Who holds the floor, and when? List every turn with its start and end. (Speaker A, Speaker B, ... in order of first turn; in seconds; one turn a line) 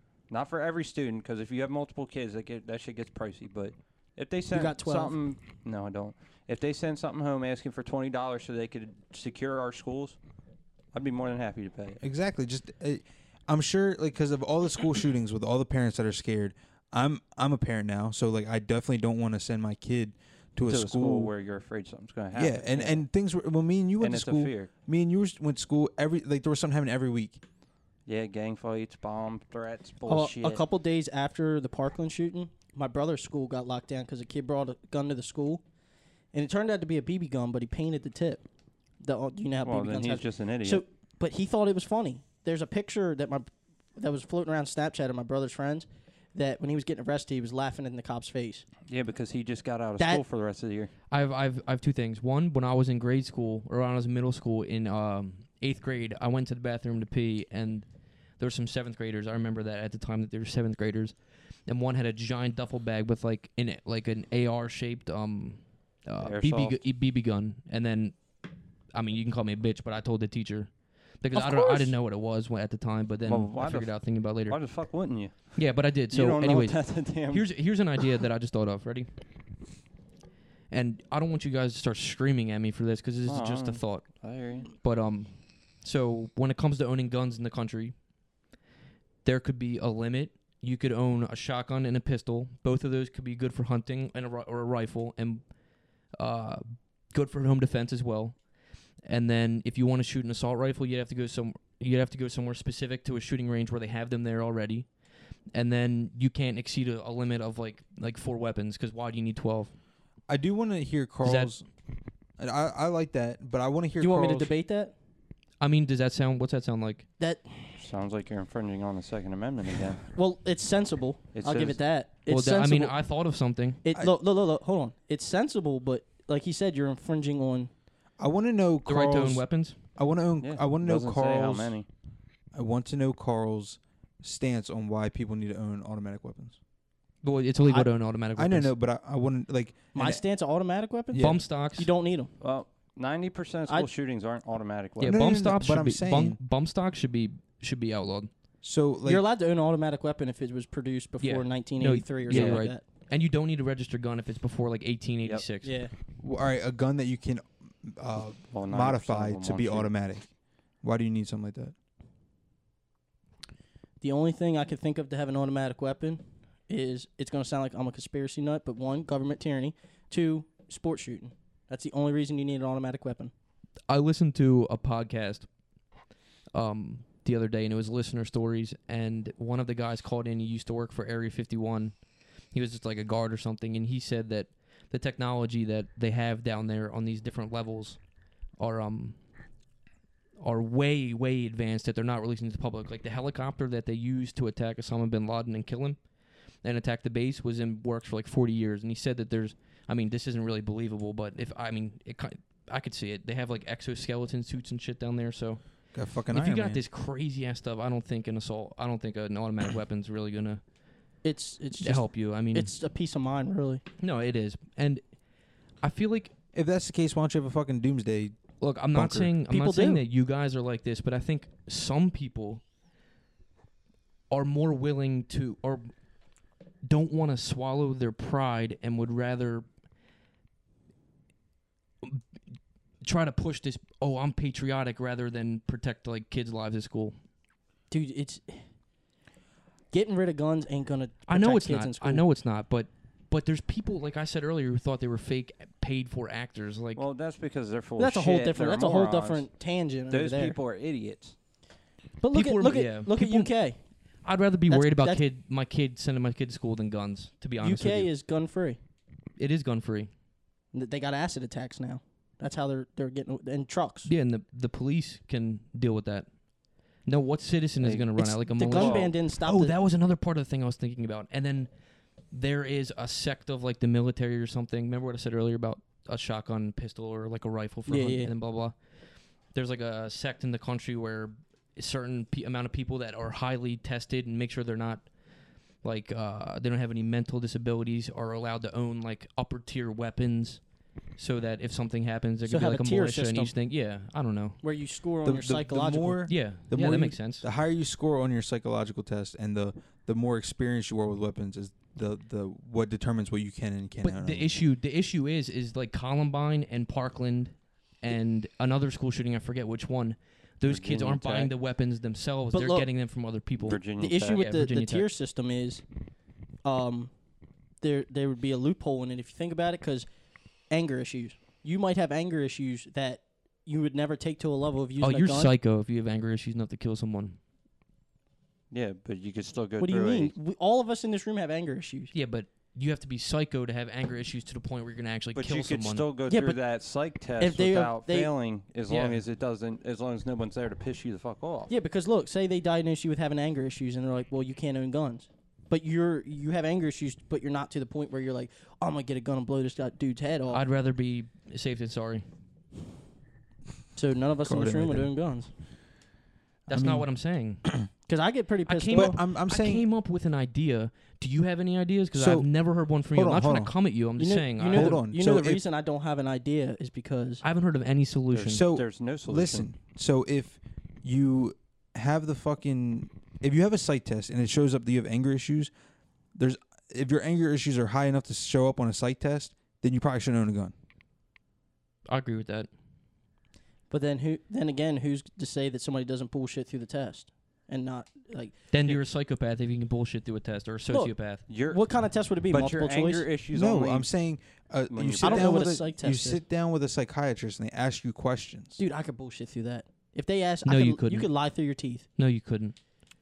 Speaker A: 0.3-10.2
Speaker B: 4.5-5.2
Speaker A: 10.9-12.0
Speaker C: 12.0-21.3
Speaker A: 20.6-23.0
Speaker C: 22.3-27.4
Speaker A: 24.0-24.7
Speaker A: 28.1-30.6
Speaker B: 30.1-35.6
Speaker B: 36.3-38.4
Speaker B: 39.0-48.6
Speaker A: 39.6-40.8
Speaker A: 48.9-50.9
Speaker B: 50.0-50.2
Speaker D: 51.1-57.9
Speaker D: 58.4-68.2
Speaker A: 66.2-66.8
Speaker D: 68.9-74.8
Speaker B: 71.3-71.9
Speaker A: 73.2-75.6
Speaker D: 75.5-79.1
Speaker A: 76.1-77.5
Speaker D: 80.7-88.0
Speaker A: 83.2-84.7
Speaker D: 89.2-95.4
Speaker D: 96.1-98.4
Speaker D: 99.0-104.9
Speaker D: 105.5-109.7
Speaker C: 110.3-111.6
Speaker D: 111.2-111.6
Speaker C: 112.4-114.5
Speaker B: 114.0-114.9
Speaker D: 115.6-117.1
Speaker B: 117.2-117.8
Speaker A: 117.8-120.0
Speaker B: 120.1-123.0
Speaker A: 121.3-121.8
Speaker D: 122.3-123.8
Speaker B: 123.8-127.7
Speaker C: 128.2-131.8
Speaker D: 128.8-129.8
Speaker A: 130.4-131.8
Speaker C: 132.5-136.6
Speaker D: 137.2-138.7
Speaker C: 138.3-140.2
Speaker B: 139.9-142.3
Speaker C: 141.1-141.5
Speaker D: 141.2-141.9
Speaker A: 142.4-145.2
Speaker D: 145.0-148.3
Speaker C: 145.0-146.4
Speaker C: 148.6-149.2
Speaker B: 149.0-152.8
Speaker D: 151.2-155.7
Speaker A: 152.3-152.6
Speaker B: 155.6-155.9
Speaker C: 156.2-160.3
Speaker A: 158.5-159.9
Speaker C: 160.8-161.7
Speaker B: 164.0-173.3
Speaker D: 173.9-175.5
Speaker D: 176.5-182.0
Speaker D: 182.5-188.0
Speaker D: 188.6-189.2
Speaker D: 190.4-196.0
Speaker D: 196.6-205.6
Speaker C: 205.9-206.8
Speaker D: 206.3-210.6
Speaker B: 211.2-213.8
Speaker D: 211.8-212.7
Speaker D: 214.0-215.0
Speaker D: 215.8-216.3
Speaker C: 216.5-218.4
Speaker D: 218.6-222.6
Speaker C: 218.9-219.3
Speaker B: 219.5-220.0
Speaker D: 224.3-225.9
Speaker D: 226.8-229.6
Speaker D: 233.0-237.2
Speaker B: 237.9-238.6
Speaker B: 239.9-242.2
Speaker D: 241.3-247.0
Speaker A: 246.9-249.5
Speaker B: 248.0-250.6
Speaker A: 250.1-251.3
Speaker B: 252.2-253.8
Speaker D: 252.3-253.5
Speaker D: 254.2-258.1
Speaker B: 254.7-255.2
Speaker B: 257.6-258.8
Speaker D: 259.4-260.1
Speaker B: 260.7-264.1
Speaker D: 264.1-266.3
Speaker D: 267.0-271.7
Speaker A: 267.8-268.1
Speaker B: 268.2-269.7
Speaker A: 268.6-269.1
Speaker D: 272.3-278.7
Speaker B: 277.9-278.3
Speaker D: 279.5-285.1
Speaker D: 285.8-290.6
Speaker D: 291.1-294.6
Speaker B: 292.4-293.5
Speaker B: 294.6-296.2
Speaker C: 295.2-304.5
Speaker D: 296.3-297.4
Speaker D: 304.0-315.1
Speaker A: 310.7-311.5
Speaker B: 312.5-312.9
Speaker A: 313.6-314.4
Speaker B: 314.0-315.8
Speaker B: 316.6-317.1
Speaker B: 317.8-320.1
Speaker B: 320.7-325.5
Speaker D: 325.0-327.4
Speaker A: 328.7-330.3
Speaker B: 329.8-332.1
Speaker D: 332.1-336.1
Speaker A: 335.3-341.7
Speaker B: 336.3-336.6
Speaker B: 337.4-338.3
Speaker B: 341.7-350.6
Speaker D: 350.5-352.2
Speaker B: 353.9-355.5
Speaker C: 354.4-355.1
Speaker C: 356.7-357.1
Speaker D: 356.7-357.6
Speaker B: 358.1-359.2
Speaker D: 358.7-365.0
Speaker C: 358.9-359.9
Speaker C: 362.1-363.7
Speaker B: 364.2-367.4
Speaker C: 364.6-365.6
Speaker D: 367.4-368.6
Speaker A: 368.3-369.7
Speaker C: 368.4-375.7
Speaker C: 376.4-380.7
Speaker D: 382.1-382.7
Speaker B: 383.9-388.5
Speaker D: 388.7-391.4
Speaker B: 390.9-393.3
Speaker A: 391.5-391.8
Speaker A: 392.5-394.1
Speaker C: 393.5-398.8
Speaker A: 394.9-395.7
Speaker B: 395.2-396.4
Speaker B: 398.8-402.1
Speaker D: 400.6-401.3
Speaker D: 402.2-402.8